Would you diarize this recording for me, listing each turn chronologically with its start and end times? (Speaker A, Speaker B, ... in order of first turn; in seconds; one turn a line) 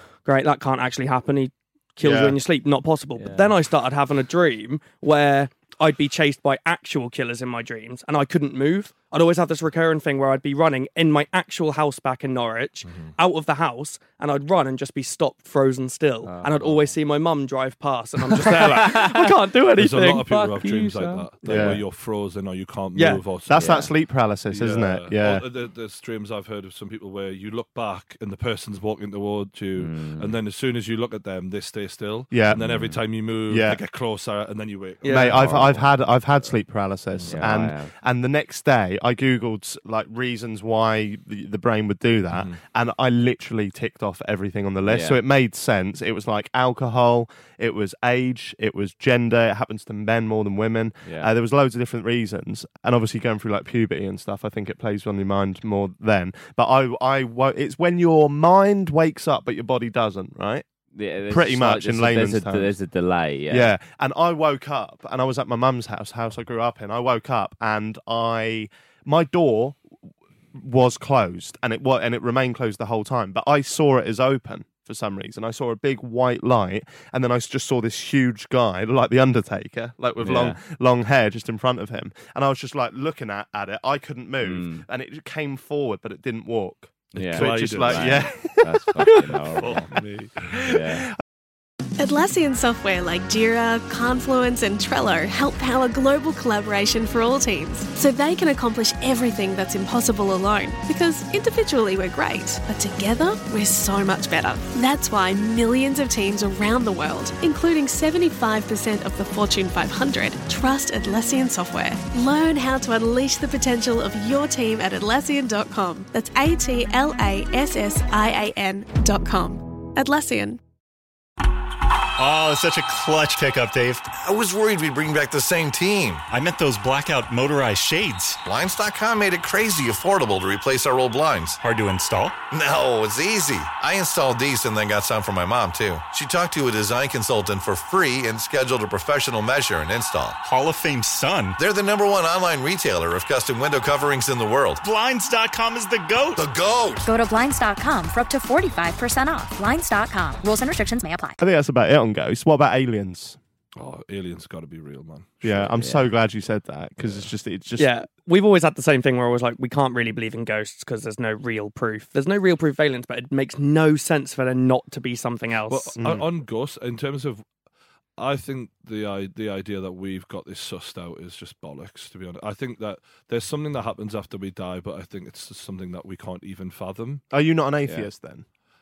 Speaker A: 0.2-20.3
Speaker B: 2.0-2.4
Speaker C: 3.2-3.5
Speaker D: 12.9-13.1
Speaker C: 16.2-16.9
Speaker C: 18.8-19.2
Speaker D: 19.8-23.7
Speaker C: 20.3-21.7
Speaker B: 21.4-21.8
Speaker A: 22.9-23.2
Speaker B: 23.5-25.4
Speaker C: 23.6-23.9
Speaker D: 24.5-35.8
Speaker C: 29.8-30.4
Speaker B: 32.3-32.6
Speaker C: 32.5-33.0
Speaker B: 33.5-33.8
Speaker A: 35.0-35.4
Speaker B: 35.1-60.6
Speaker D: 37.1-37.4
Speaker C: 37.3-37.9
Speaker D: 42.3-42.6
Speaker C: 44.9-45.2
Speaker C: 51.0-51.3
Speaker C: 60.9-63.7
Speaker B: 61.3-62.7
Speaker B: 63.5-69.8
Speaker B: 70.5-89.2
Speaker C: 80.2-80.6
Speaker C: 84.4-84.8
Speaker C: 87.1-89.9
Speaker D: 87.2-88.2
Speaker D: 89.6-90.5
Speaker B: 90.5-91.0
Speaker C: 90.6-91.1
Speaker E: 92.0-120.6
Speaker F: 122.2-124.1
Speaker G: 124.1-126.3
Speaker F: 126.3-128.4
Speaker G: 128.4-131.6
Speaker F: 131.6-132.4
Speaker G: 132.5-140.4
Speaker F: 140.4-141.6
Speaker G: 141.6-144.8
Speaker F: 144.8-146.4
Speaker G: 146.3-147.1
Speaker H: 147.1-151.4
Speaker B: 151.4-153.4
Speaker D: 153.8-155.8
Speaker B: 155.4-157.9
Speaker C: 155.8-156.0
Speaker A: 157.8-165.9
Speaker D: 165.7-167.4
Speaker B: 166.0-166.2
Speaker D: 168.2-177.2
Speaker B: 177.3-178.4